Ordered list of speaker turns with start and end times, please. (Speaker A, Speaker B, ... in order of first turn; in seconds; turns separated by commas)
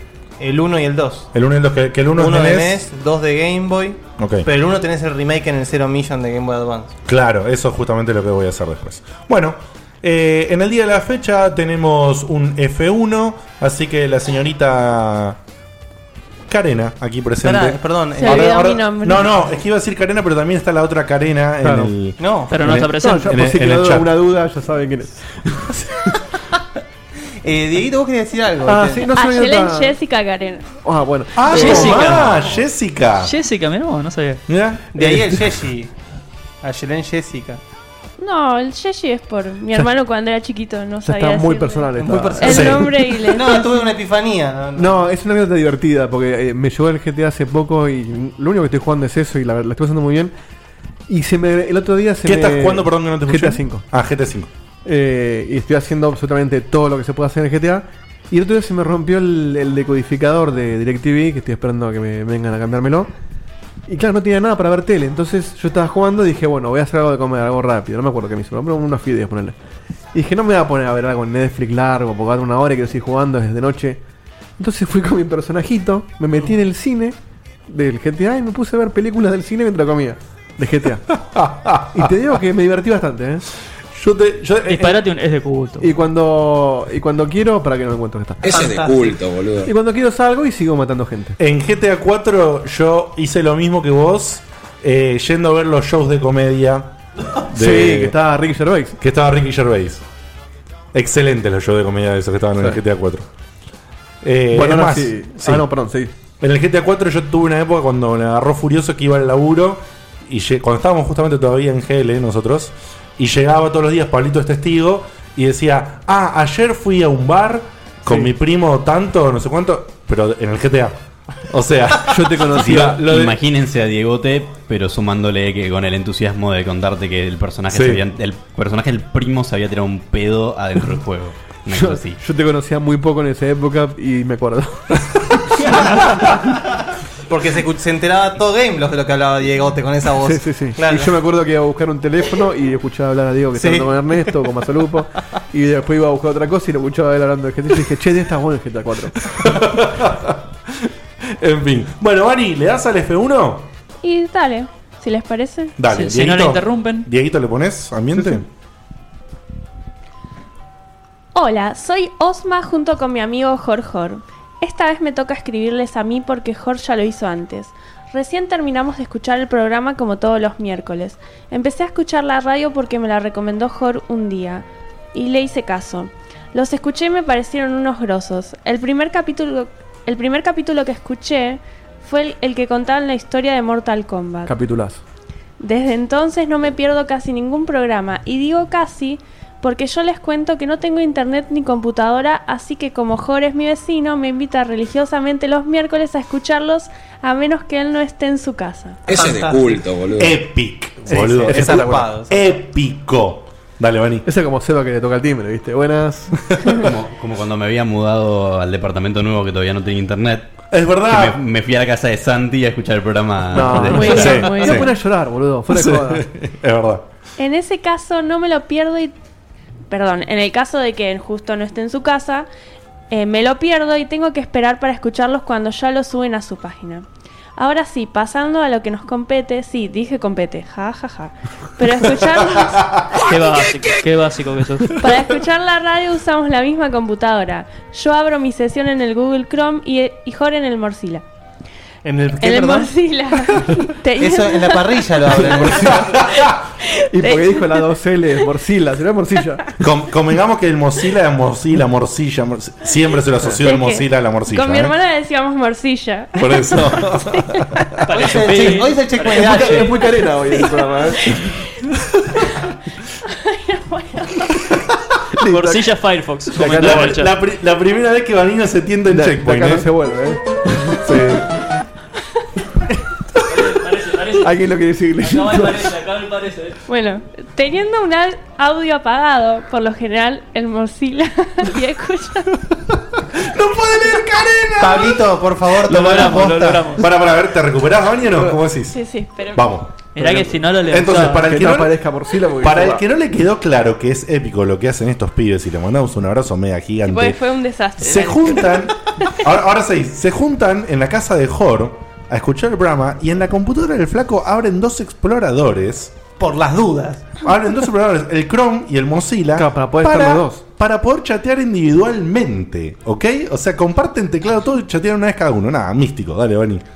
Speaker A: 0.4-1.3, Speaker B: 1.3-2.8, Speaker A: 2.1-6.9, Speaker B: 4.2-4.5, Speaker B: 7.1-15.4, Speaker B: 16.5-24.1, Speaker A: 17.4-18.5, Speaker C: 18.2-19.3, Speaker D: 21.6-21.9, Speaker A: 22.2-22.5, Speaker E: 22.5-23.3, Speaker D: 22.9-26.1, Speaker A: 27.4-29.1, Speaker D: 28.7-30.0, Speaker C: 29.1-30.8, Speaker D: 30.8-32.1, Speaker B: 31.4-33.3, Speaker E: 31.5-32.4, Speaker E: 33.2-34.4, Speaker B: 34.5-35.0, Speaker A: 34.9-35.9, Speaker A: 36.6-37.6, Speaker C: 38.2-43.8, Speaker D: 41.0-43.1, Speaker A: 42.0-45.0, Speaker B: 42.4-42.8, Speaker D: 44.8-50.3, Speaker D: 51.1-53.8, Speaker B: 52.2-54.5, Speaker D: 54.9-63.1, Speaker D: 63.9-69.5, Speaker D: 70.1-74.0, Speaker D: 74.6-77.2, Speaker D: 77.7-81.1, Speaker B: 81.2-82.1, Speaker D: 81.9-83.4, Speaker B: 84.0-85.0, Speaker E: 84.7-85.9, Speaker D: 85.8-88.4, Speaker F: 88.4-89.7, Speaker A: 88.5-89.1, Speaker D: 89.6-91.4, Speaker B: 91.4-96.9, Speaker B: 97.5-98.2, Speaker D: 97.5-99.0, Speaker B: 99.0-100.0, Speaker B: 100.9-103.3, Speaker B: 104.2-105.7, Speaker D: 104.5-106.1, Speaker B: 106.4-123.3, Speaker D: 122.1-123.3, Speaker G: 122.8-132.2, Speaker B: 127.7-128.0, Speaker D: 131.7-136.4, Speaker A: 137.3-141.2, Speaker D: 140.2-149.2, Speaker A: 143.6-143.9, Speaker B: 149.3-153.7, Speaker C: 154.0-155.8, Speaker B: 155.8-158.4, Speaker E: 155.9-157.1, Speaker C: 161.3-184.5, Speaker D: 184.5-185.0, Speaker C: 185.6-199.0, Speaker F: 199.1-200.4, Speaker A: 199.1-199.8, Speaker B: 200.2-204.2, Speaker A: 201.1-202.6, Speaker D: 204.2-206.6, Speaker G: 206.8-214.4, Speaker B: 210.7-211.4, Speaker D: 213.5-216.3, Speaker B: 213.8-214.9, Speaker C: 213.9-214.9, Speaker B: 215.7-217.1, Speaker C: 217.4-219.1, Speaker C: 219.9-222.5, Speaker C: 223.1-227.1, Speaker C: 227.6-233.0, Speaker E: 233.2-235.0, Speaker C: 235.0-241.2, Speaker A: 242.1-242.9, Speaker C: 242.4-245.1, Speaker A: 244.2-246.2, Speaker D: 245.5-246.2, Speaker B: 246.2-246.5, Speaker C: 246.9-247.9, Speaker D: 247.1-249.7, Speaker B: 249.8-254.9, Speaker C: 253.6-257.9, Speaker B: 256.4-257.8, Speaker E: 258.1-259.9, Speaker A: 258.1-259.9, Speaker D: 259.3-261.4, Speaker C: 263.3-264.6, Speaker D: 265.4-265.9, Speaker E: 265.5-267.3, Speaker D: 266.5-267.2, Speaker B: 266.6-269.9, Speaker D: 269.1-271.0, Speaker B: 270.9-271.5, Speaker E: 273.4-274.5, Speaker D: 274.4-275.9, Speaker E: 275.2-276.8, Speaker C: 276.9-282.6, Speaker B: 283.3-289.0, Speaker A: 284.8-286.7, Speaker E: 285.9-287.1, Speaker C: 288.9-289.7, Speaker B: 289.5-289.9, Speaker E: 290.1-291.5, Speaker D: 290.2-290.6, Speaker B: 290.9-292.0, Speaker D: 291.4-293.0, Speaker B: 292.6-297.4, Speaker C: 297.0-298.9, Speaker B: 298.0-306.1, Speaker A: 306.4-307.3, Speaker B: 307.4-316.9, Speaker D: 309.6-310.6